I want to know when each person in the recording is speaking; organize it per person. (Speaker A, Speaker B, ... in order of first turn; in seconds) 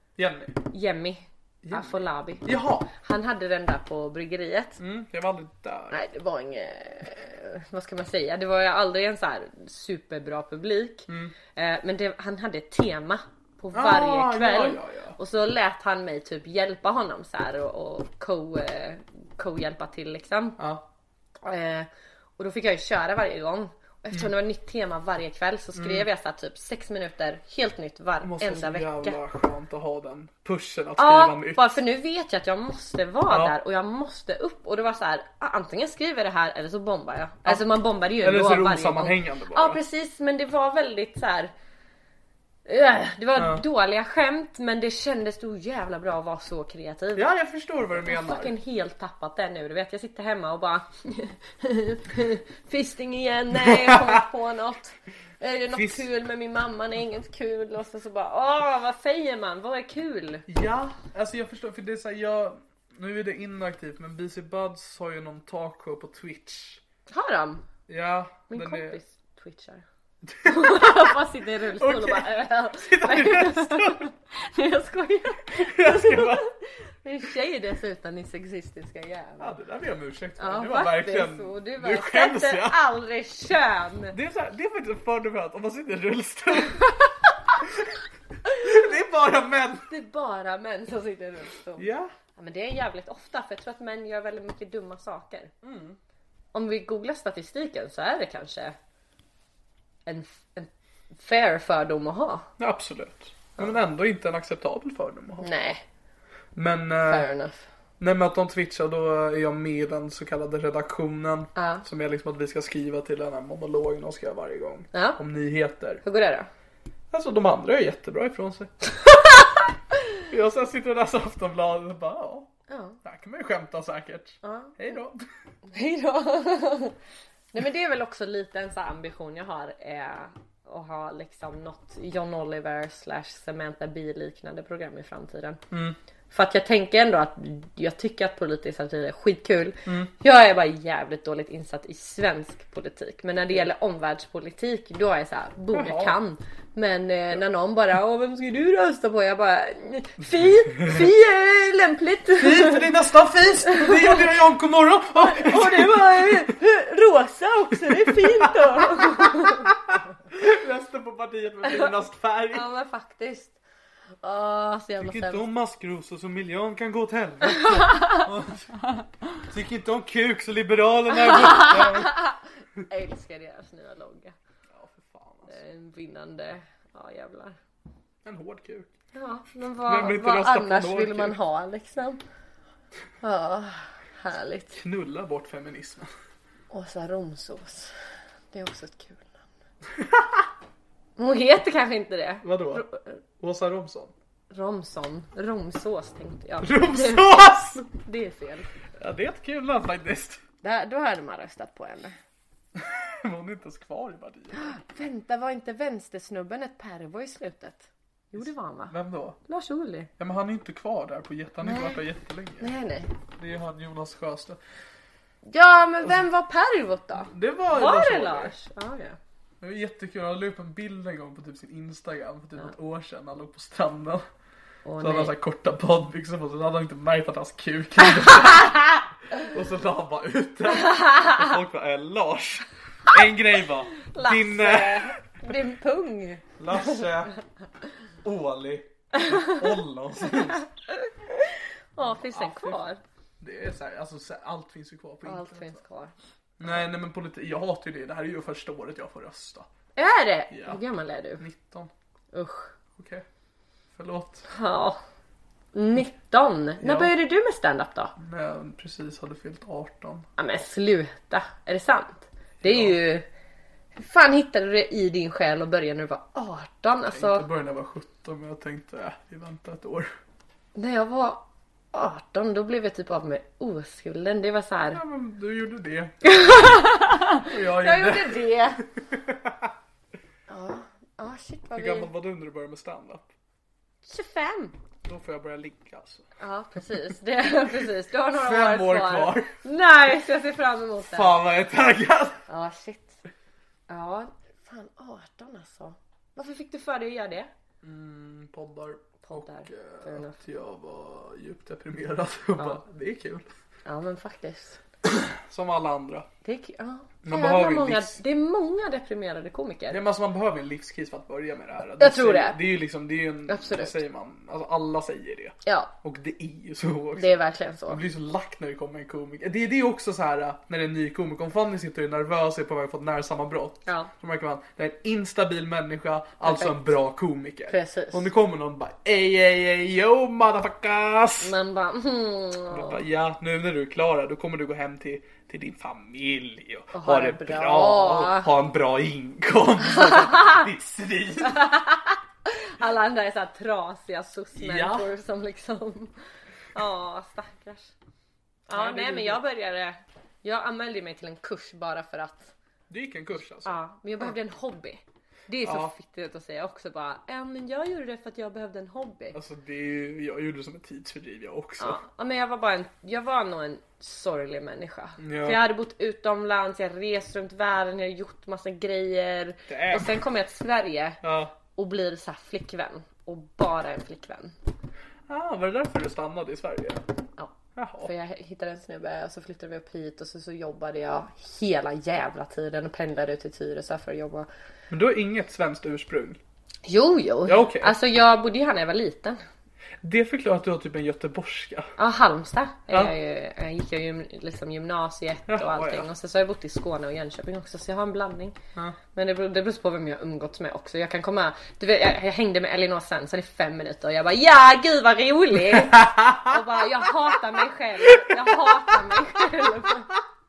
Speaker A: 0.2-0.6, 1.6-2.9, 4.8-6.0, 11.1-11.3, 13.7-15.2, 20.6-20.8, 25.7-26.1, 28.2-31.8, 33.3-33.5, 37.4-39.8, 43.4-43.6, 47.1-48.5, 53.6-54.2, 55.7-56.0, 60.5-66.8, 67.9-69.0, 70.3-71.1, 71.8-74.1, 75.5-76.5, 79.4-82.8, 84.1-86.9, 88.4-89.9, 91.8-92.1, 95.6-96.0, 102.6-105.5, 106.5-107.3, 108.0-116.0, 117.1-118.7, 120.3-122.5, 123.0-125.2, 135.7-136.0, 139.8-140.1, 145.7-146.2, 152.4-156.5, 157.8-162.7, 165.0-172.2, 174.7-175.5, 178.2-178.9, 179.8-181.4, 184.8-186.1, 189.9-190.4, 192.4-192.9, 193.4-194.1, 196.6-197.9, 199.0-200.4, 202.7-204.8, 208.9-209.4, 210.2-212.7, 213.4-214.6, 217.3-218.5, 219.6-224.2, 225.0-235.2, 236.6-237.3, 238.2-240.7, 242.0-242.8, 243.4-245.8, 246.6-249.7, 250.5-250.8, 251.4-251.9, 253.0-253.2, 253.9-254.4, 256.8-257.1, 258.2-260.3, 262.6-263.0, 267.1-270.1, 274.9-276.1, 277.4-278.5, 279.0-279.7, 281.7-283.3, 285.0-286.2, 288.3-289.6, 291.0-292.4, 297.8-303.4, 305.1-306.3, 307.2-308.1, 309.9-331.5, 332.7-341.6, 344.6-345.1, 348.7-349.4, 352.9-354.2, 355.6-355.9, 359.3-362.0, 365.2-365.6, 369.7-370.1, 371.2-371.5, 375.3-377.0, 377.8-378.1, 384.9-386.4, 387.4-387.9, 390.0-391.9, 392.9-393.1, 395.5-396.1, 405.7-406.5, 408.1-408.7
Speaker B: 0.7-4.8, 5.9-20.6, 21.4-29.2, 31.0-41.5, 42.6-47.2, 48.0-60.4, 67.1-67.7, 68.5-69.8, 70.4-79.5, 80.4-84.2, 89.9-95.5, 96.5-98.8, 100.0-102.5, 105.4-105.8, 107.0-107.7, 111.5-111.8, 114.9-115.2, 116.0-116.5, 122.7-123.0, 124.4-124.8, 125.7-127.0, 127.5-135.6, 136.3-152.8, 153.7-154.1, 155.2-159.7, 162.5-163.6, 164.2-165.5, 167.8-168.2, 171.3-172.4, 172.9-174.3, 175.5-177.6, 179.1-182.2, 183.2-184.8, 186.7-187.9, 188.5-189.4, 191.2-193.2, 194.5-198.7, 200.6-202.2, 204.5-208.9, 209.4-210.1, 211.6-212.0, 212.6-213.1, 215.4-219.2, 224.8-225.3, 230.7-231.5, 234.1-236.4, 239.2-239.6, 241.9-243.0, 245.2-246.1, 249.9-251.4, 252.3-252.7, 254.5-255.0, 255.7-258.1, 260.4-263.2, 263.9-267.4, 270.7-275.0, 276.2-278.8, 280.5-282.1, 284.1-284.8, 286.4-291.4, 292.5-293.2, 293.9-297.5, 299.2-300.4, 303.8-304.8, 306.4-310.0, 312.0-312.6, 313.5-313.9, 315.6-315.9, 317.1-318.0, 323.9-324.1, 326.4-326.9, 327.7-328.3, 331.4-333.0, 336.9-338.5, 339.9-340.7, 341.4-346.1, 346.7-347.9, 348.7-352.5, 353.6-359.4, 361.8-371.2, 371.7-374.5, 377.4-384.5, 386.8-389.4, 392.0-398.6, 399.1-410.2